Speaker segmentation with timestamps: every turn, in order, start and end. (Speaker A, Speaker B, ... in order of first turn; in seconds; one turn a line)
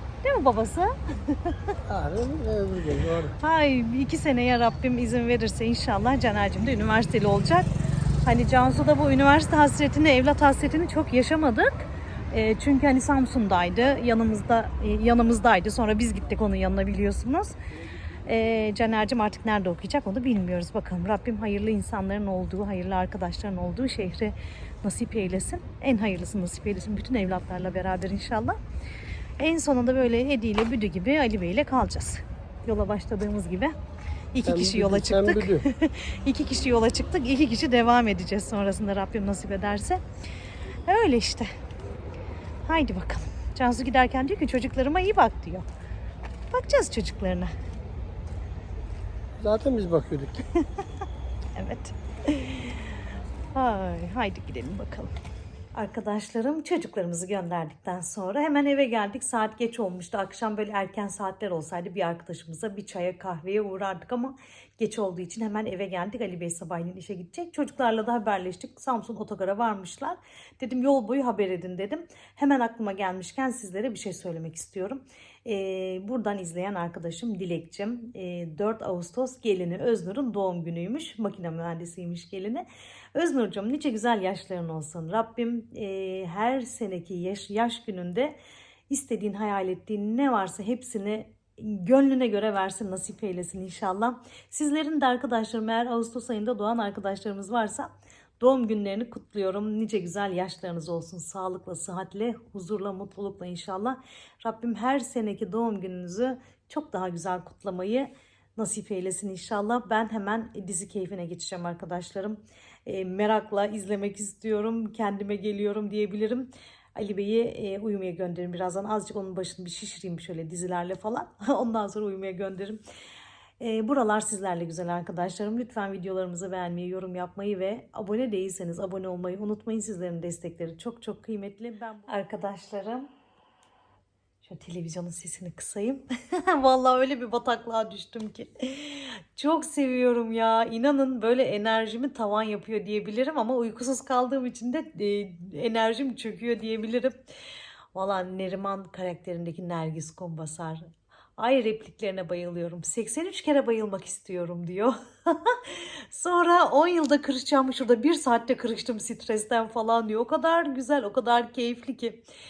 Speaker A: 0.2-1.7
Speaker B: 1.9-3.4
Speaker A: 3.4-7.7
Speaker A: 8.2-17.6
Speaker A: 18.3-28.6
Speaker A: 29.4-33.8
Speaker A: 34.3-40.0
Speaker B: 34.5-35.6
Speaker A: 40.9-41.5
Speaker A: 42.7-45.7
Speaker A: 46.5-47.5
Speaker B: 49.4-50.5
Speaker A: 51.5-52.8
Speaker A: 53.5-55.1
Speaker A: 55.7-88.3
Speaker A: 88.9-122.8
Speaker A: 123.6-133.1
Speaker A: 134.4-147.2
Speaker A: 147.9-162.2